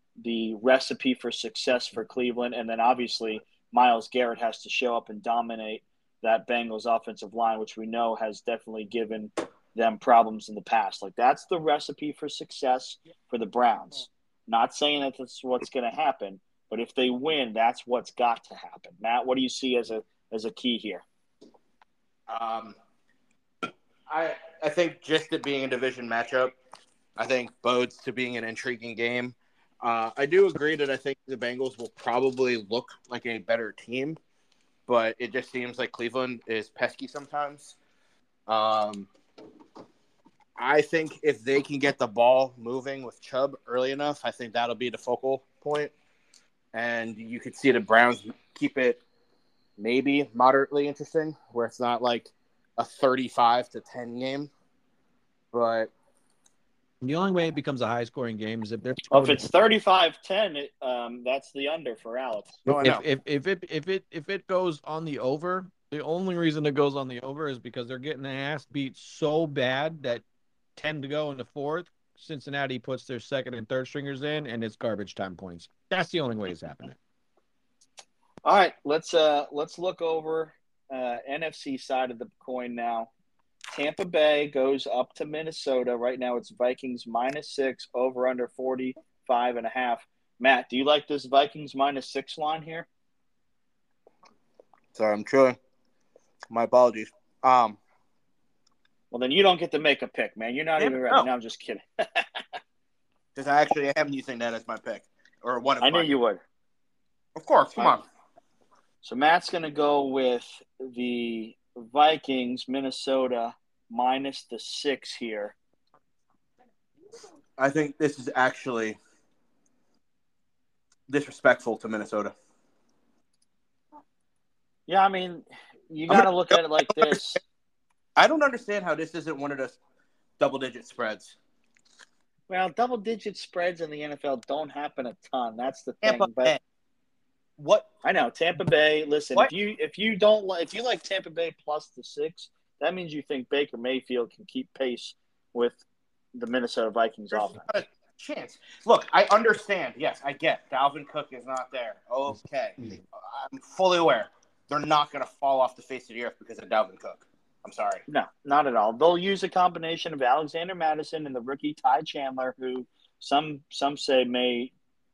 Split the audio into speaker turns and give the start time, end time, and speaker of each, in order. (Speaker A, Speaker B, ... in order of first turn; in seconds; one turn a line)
Speaker A: 0.2-21.0
Speaker B: 22.3-22.8
Speaker B: 24.1-26.6
Speaker B: 27.2-34.2
Speaker B: 34.9-37.8
Speaker B: 38.5-39.1
Speaker B: 40.6-45.9
Speaker B: 46.7-49.0
Speaker B: 49.8-54.5
Speaker B: 55.5-55.9
Speaker C: 57.0-59.5
Speaker A: 59.1-62.6
Speaker B: 62.7-63.0
Speaker C: 62.7-70.2
Speaker C: 70.8-77.0
Speaker A: 78.5-83.1
Speaker A: 83.7-92.9
Speaker B: 94.9-95.6
Speaker B: 96.5-97.8
Speaker A: 99.1-102.5
Speaker B: 100.8-101.3
Speaker B: 103.3-106.1
Speaker A: 105.8-106.4
Speaker B: 107.4-108.0
Speaker A: 109.0-115.5
Speaker B: 117.6-119.0
Speaker B: 121.1-122.3
Speaker A: 124.9-127.4
Speaker B: 128.2-129.8
Speaker B: 130.4-131.4
Speaker A: 132.5-136.6
Speaker B: 136.0-136.6
Speaker B: 137.6-137.9
Speaker A: 138.0-145.8
Speaker A: 146.3-147.7
Speaker B: 147.3-158.0
Speaker C: 152.3-153.0
Speaker A: 158.1-164.7